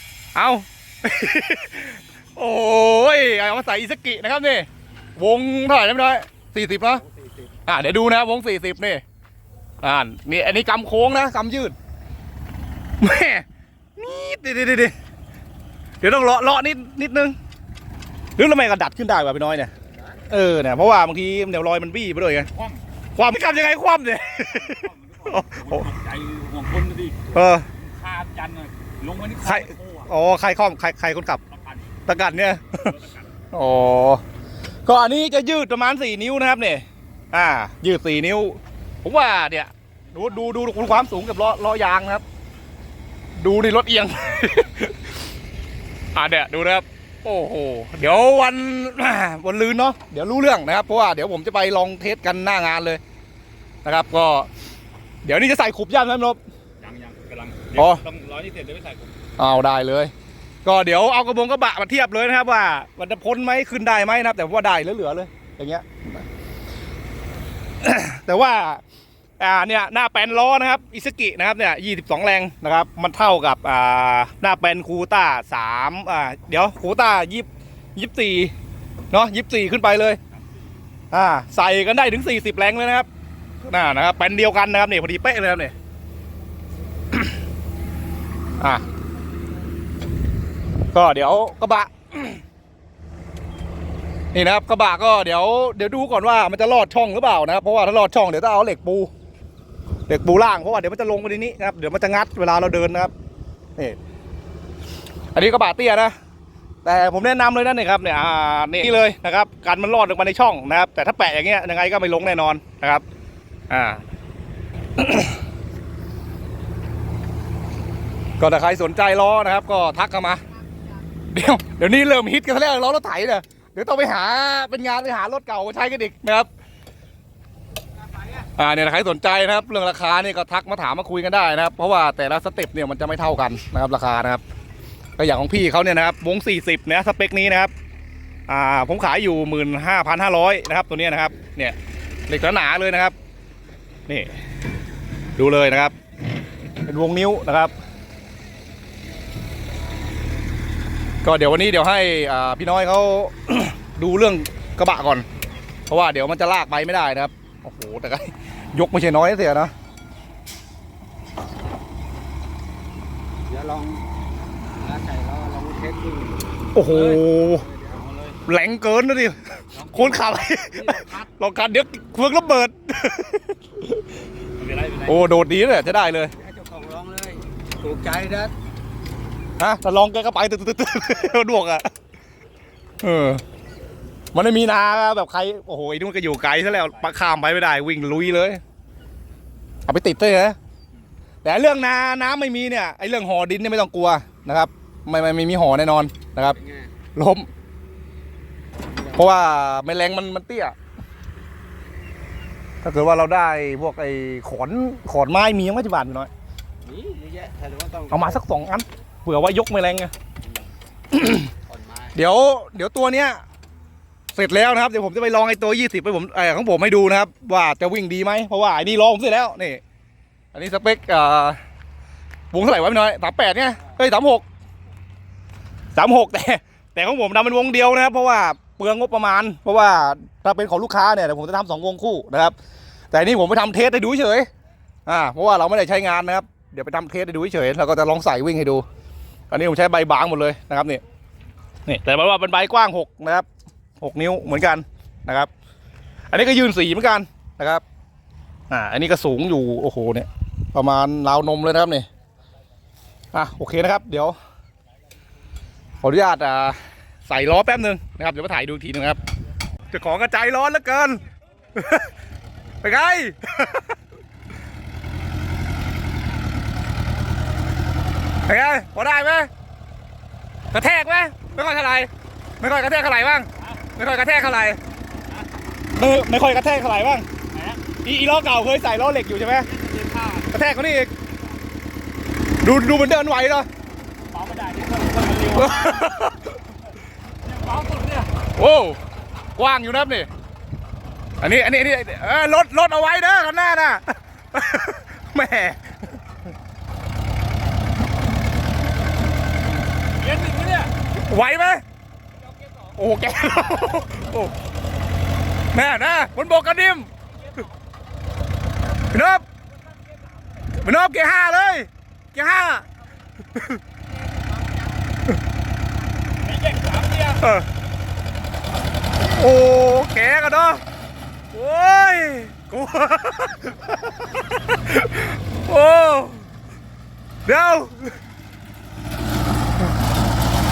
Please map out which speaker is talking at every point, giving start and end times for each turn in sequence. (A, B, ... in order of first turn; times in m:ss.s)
0:00.4-0:07.0 A
0:06.9-0:07.6 B
0:07.7-0:09.0 A
0:09.8-0:11.8 A
0:13.0-0:13.4 A
0:14.0-0:14.9 A
0:16.0-0:17.4 A
0:18.4-0:19.7 A
0:20.3-0:22.5 A
0:22.5-0:22.8 C
0:23.2-0:25.9 A
0:24.4-0:30.1 C
0:27.3-0:27.7 A
0:29.4-0:31.4 A
0:31.5-0:32.0 C
0:32.1-0:33.0 A
0:32.8-0:33.3 C
0:33.5-0:34.2 A
0:34.9-0:42.2 A
0:40.1-0:41.0 C
0:43.4-0:45.1 A
0:46.1-0:53.0 A
0:53.8-0:54.5 A
0:55.2-0:56.4 A
0:56.8-0:59.1 C
0:57.7-0:58.0 A
0:59.4-1:00.1 A
1:00.6-1:06.2 A
1:07.8-1:08.8 A
1:09.4-1:18.5 A
1:19.1-1:20.2 A
1:21.1-1:23.1 A
1:23.6-1:25.7 A
1:30.9-1:32.4 A
1:34.3-1:39.1 A
1:40.1-1:43.1 A
1:45.3-1:46.2 A
1:46.8-1:53.0 A
1:53.7-1:54.0 A
1:55.0-1:55.4 A
1:58.4-2:00.4 A
2:01.3-2:06.5 A
2:08.4-2:14.4 A
2:15.2-2:17.7 A
2:18.5-2:21.8 A
2:22.3-2:23.2 A
2:24.1-2:24.3 A
2:25.4-2:25.9 A
2:26.8-2:27.7 A
2:31.2-2:35.2 A
2:35.9-2:39.7 A
2:43.5-2:44.0 B
2:44.8-2:46.6 B
2:46.8-2:47.6 A
2:46.8-2:47.2 C
2:47.4-2:48.0 B
2:47.9-2:48.4 C
2:48.4-2:53.9 A
2:49.7-2:50.4 C
2:50.7-2:51.3 B
2:54.6-2:55.2 C
2:55.1-2:56.3 A
2:56.3-2:58.5 B
2:59.6-3:01.9 A
3:03.0-3:03.4 A
3:04.3-3:08.6 A
3:09.9-3:10.6 A
3:11.4-3:16.6 A
3:16.4-3:16.9 B
3:17.2-3:17.5 A
3:18.9-3:19.4 B
3:19.1-3:20.8 A
3:22.8-3:26.3 A
3:26.8-3:28.4 B
3:28.1-3:30.1 A
3:31.1-3:31.5 A
3:31.7-3:32.2 B
3:32.2-3:33.4 A
3:34.3-3:39.8 A
3:40.5-3:41.6 A
3:42.5-3:44.4 A
3:45.9-3:52.6 A
3:53.1-3:54.5 A
3:55.1-3:58.8 A
3:59.5-4:01.0 A
4:01.9-4:03.5 A
4:04.0-4:05.5 A
4:06.3-4:07.8 A
4:08.7-4:12.1 A
4:13.3-4:14.4 A
4:16.0-4:19.2 A
4:19.9-4:21.2 A
4:21.8-4:22.1 A
4:22.8-4:23.9 A
4:28.4-4:29.5 A
4:30.7-4:34.8 A
4:35.9-4:37.3 A
4:37.5-4:37.8 C
4:38.0-4:39.7 A
4:39.7-4:40.5 C
4:40.5-4:41.1 A
4:42.6-4:43.7 A
4:44.3-4:46.1 C
4:45.5-4:46.5 A
4:47.4-4:48.3 C
4:48.5-4:49.0 A
4:49.6-4:50.3 A
4:51.4-4:56.2 A
5:00.2-5:00.9 C
5:01.1-5:01.8 A
5:03.0-5:04.5 A
5:05.7-5:07.1 A
5:09.1-5:09.4 A
5:10.8-5:12.9 A
5:13.6-5:13.8 A
5:16.4-5:17.4 C
5:17.4-5:17.7 A
5:19.2-5:20.8 A
5:21.5-5:23.9 A
5:24.7-5:26.5 A
5:27.5-5:28.2 A